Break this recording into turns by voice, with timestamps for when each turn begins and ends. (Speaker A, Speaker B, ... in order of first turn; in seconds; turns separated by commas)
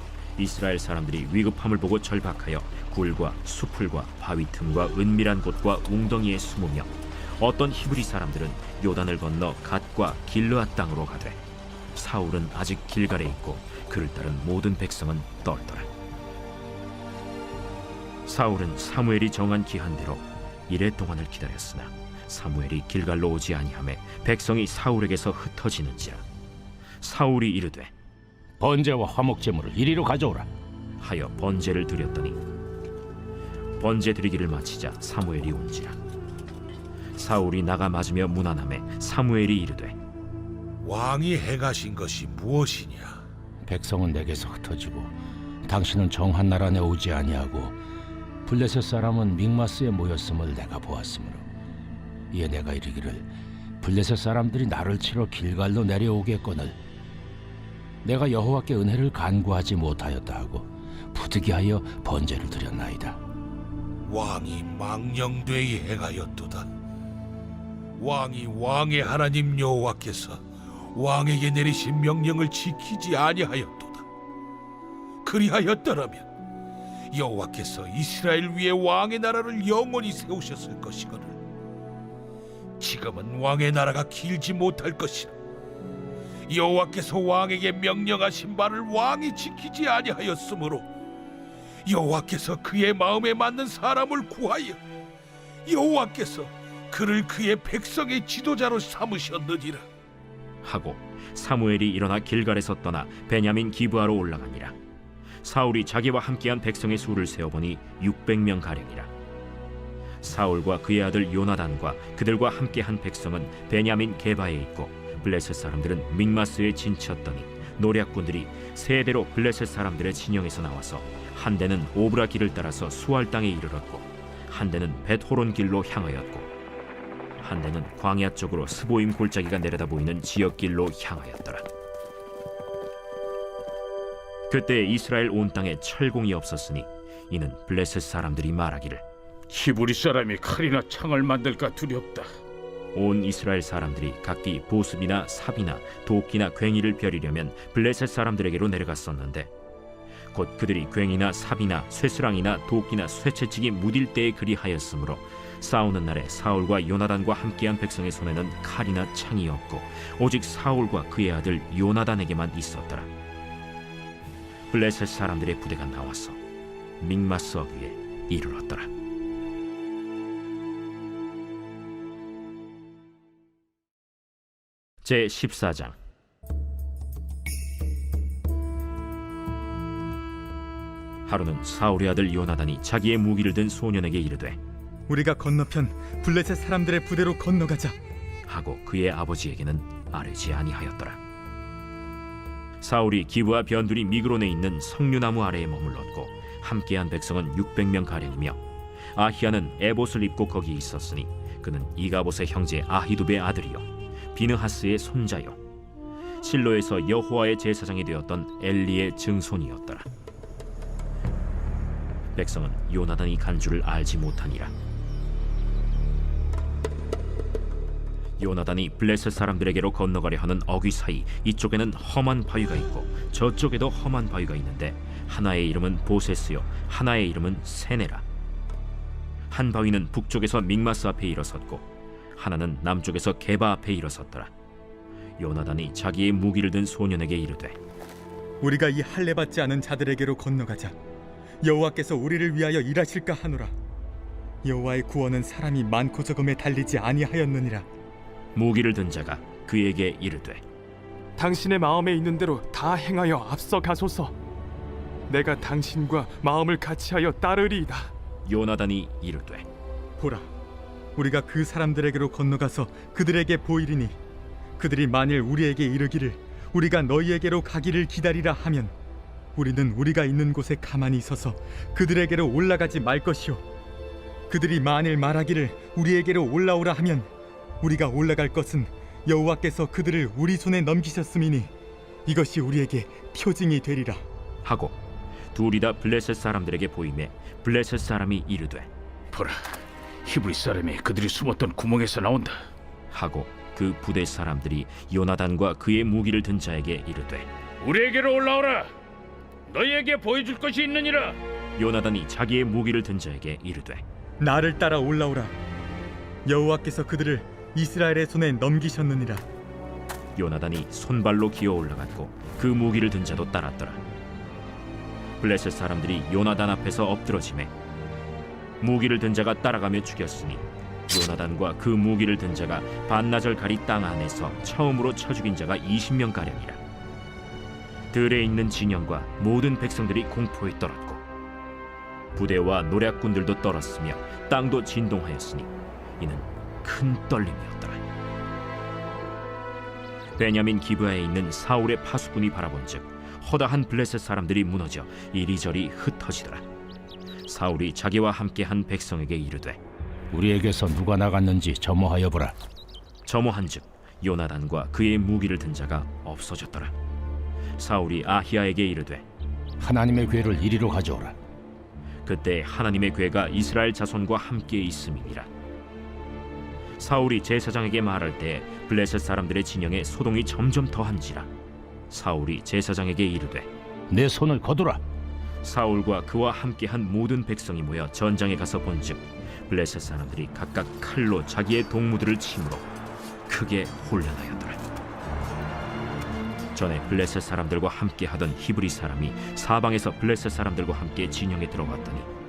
Speaker A: 0.4-11.4, Speaker A: 11.9-15.9, Speaker A: 18.3-26.2, Speaker A: 27.0-27.9, Speaker B: 28.6-30.5, Speaker A: 31.0-32.4, Speaker A: 33.8-36.0, Speaker A: 37.2-40.0, Speaker C: 40.8-43.2, Speaker B: 43.7-45.1, Speaker B: 45.6-47.8, Speaker B: 48.5-51.4, Speaker B: 52.3-53.3, Speaker B: 53.8-56.8, Speaker B: 58.0-63.2, Speaker C: 64.0-66.7, Speaker C: 68.0-70.4, Speaker C: 70.9-74.1, Speaker C: 75.2-76.2, Speaker C: 77.1-81.4, Speaker C: 82.8-85.3, Speaker C: 86.5-90.9, Speaker C: 91.8-94.8, Speaker C: 95.7-99.8, Speaker A: 100.6-104.8, Speaker A: 105.4-109.1, Speaker A: 110.2-126.5, Speaker A: 127.4-131.7, Speaker A: 134.5-139.0, Speaker D: 139.5-142.3, Speaker A: 142.9-149.5, Speaker A: 150.3-163.1, Speaker A: 164.7-166.4, Speaker A: 167.0-168.9, Speaker A: 175.0-176.0, Speaker A: 181.3-184.6, Speaker E: 185.1-188.0, Speaker A: 188.5-191.2, Speaker A: 192.8-198.6, Speaker A: 199.2-205.6, Speaker A: 206.4-210.1, Speaker A: 212.3-214.7, Speaker A: 218.4-228.2, Speaker A: 229.5-234.5, Speaker A: 235.4-237.8, Speaker E: 238.6-240.9, Speaker E: 241.6-243.7, Speaker E: 244.6-247.9, Speaker A: 248.6-250.6, Speaker F: 251.4-254.3, Speaker F: 255.3-258.1, Speaker A: 258.5-259.7, Speaker E: 260.2-260.5, Speaker E: 261.2-264.2, Speaker E: 264.8-268.9, Speaker E: 269.6-273.6, Speaker E: 274.5-277.3, Speaker E: 277.8-281.7, Speaker E: 282.3-284.2, Speaker A: 284.6-285.0, Speaker A: 285.5-288.9, Speaker D: 289.3-292.6, Speaker A: 293.1-297.5, Speaker D: 297.8-298.9, Speaker D: 299.7-301.4, Speaker A: 301.8-304.0, Speaker E: 304.4-305.6, Speaker E: 306.5-309.4, Speaker A: 310.4-314.0, Speaker A: 315.4-317.7, Speaker A: 318.8-326.8, Speaker A: 328.1-331.2, Speaker A: 332.4-338.0, Speaker A: 340.4-346.6, Speaker A: 347.5-349.8, Speaker B: 350.3-352.6, Speaker A: 353.3-356.9, Speaker A: 357.8-359.2, Speaker B: 359.8-361.4, Speaker A: 362.3-365.5, Speaker A: 367.0-371.5, Speaker A: 372.1-373.7, Speaker B: 374.1-375.0, Speaker A: 375.6-382.9, Speaker A: 383.5-384.9, Speaker A: 386.8-392.3